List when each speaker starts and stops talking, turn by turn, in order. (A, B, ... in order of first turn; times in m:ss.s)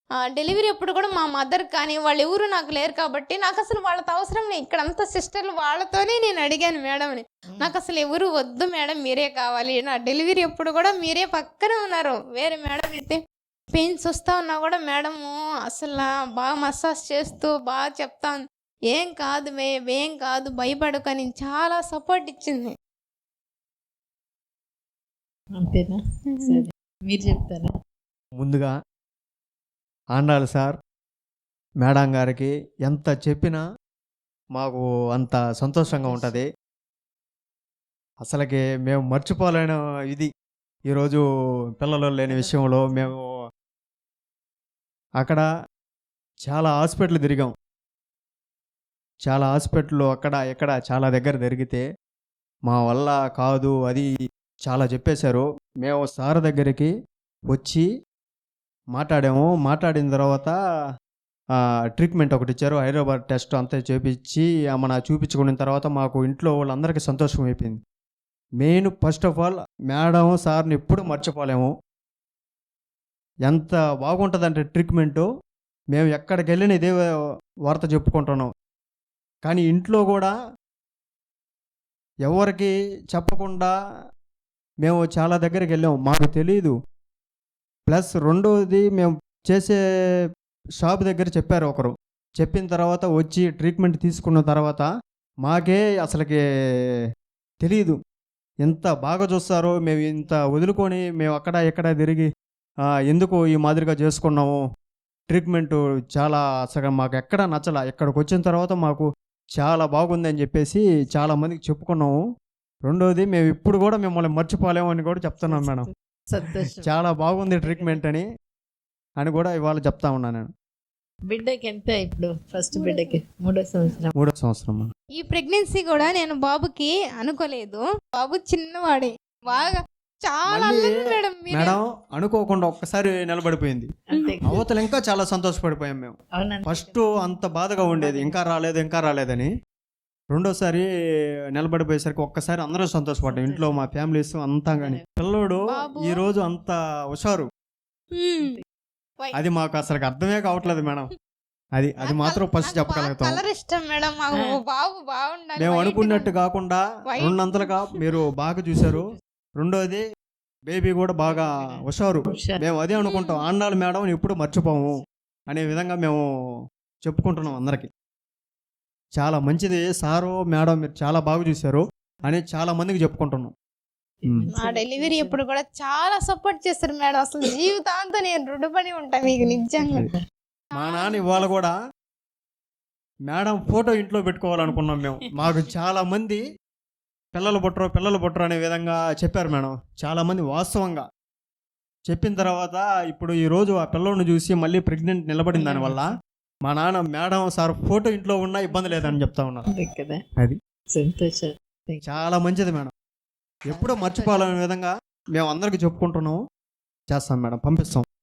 0:00.3-0:13.2 A
0:13.7-0:22.7 A
0:25.6-0:27.7 B
0:26.3-0:26.6 A
0:28.4-0:28.7 C
0:30.2-0:30.8 C
0:31.8-0:33.6 C
0:34.6-0:36.5 C
0:35.9-0:36.4 B
0:38.2-0:40.3 C
0:40.9-0:41.2 C
0:41.8-0:43.3 C
0:42.3-0:43.1 B
0:45.2-0:45.4 C
0:46.4-0:47.5 C
0:49.3-0:51.8 C
0:52.7-0:54.1 C
0:54.7-0:56.9 C
0:57.5-0:57.9 C
0:59.0-1:00.5 C
1:01.6-1:07.8 C
1:08.6-1:11.7 C
1:13.5-1:15.3 C
1:15.9-1:17.0 C
1:17.7-1:18.5 C
1:19.4-1:20.3 C
1:22.3-1:23.7 C
1:24.8-1:26.7 C
1:27.9-1:29.8 C
1:30.8-1:34.9 C
1:35.4-1:36.4 C
1:37.6-1:38.0 C
1:38.6-1:42.3 C
1:40.2-1:40.4 B
1:43.0-1:44.6 C
1:45.3-1:52.2 C
1:52.9-1:55.9 C
1:55.5-1:56.9 B
1:56.6-1:58.2 C
1:57.6-1:58.0 B
1:59.2-2:00.5 C
2:01.3-2:04.1 B
2:02.8-2:03.2 A
2:04.2-2:04.9 C
2:05.2-2:11.7 A
2:10.5-2:10.9 C
2:11.5-2:13.9 C
2:14.1-2:14.6 B
2:14.5-2:16.1 C
2:16.4-2:17.0 B
2:16.6-2:19.5 C
2:17.8-2:18.4 B
2:20.3-2:20.9 C
2:21.6-2:27.5 C
2:23.2-2:23.8 B
2:24.8-2:25.1 B
2:25.7-2:26.2 A
2:28.2-2:28.5 A
2:29.4-2:31.1 C
2:30.6-2:30.9 B
2:31.8-2:33.4 C
2:32.0-2:36.3 A
2:35.6-2:40.0 C
2:37.1-2:37.7 A
2:40.7-2:46.2 C
2:41.2-2:42.6 B
2:43.0-2:43.4 A
2:47.0-2:47.9 C
2:49.2-2:53.5 C
2:54.2-2:55.4 B
2:54.6-3:00.0 A
2:59.3-3:00.2 B
3:00.8-3:01.8 C
3:00.8-3:01.6 A
3:03.3-3:06.4 C
3:04.7-3:05.5 B
3:07.3-3:11.0 C
3:12.1-3:16.1 C
3:15.5-3:16.0 B
3:16.7-3:19.7 C
3:18.8-3:19.2 B
3:19.7-3:20.2 B
3:20.9-3:22.0 B
3:22.1-3:22.9 C
3:23.7-3:24.6 B
3:23.7-3:26.4 C
3:27.1-3:28.0 C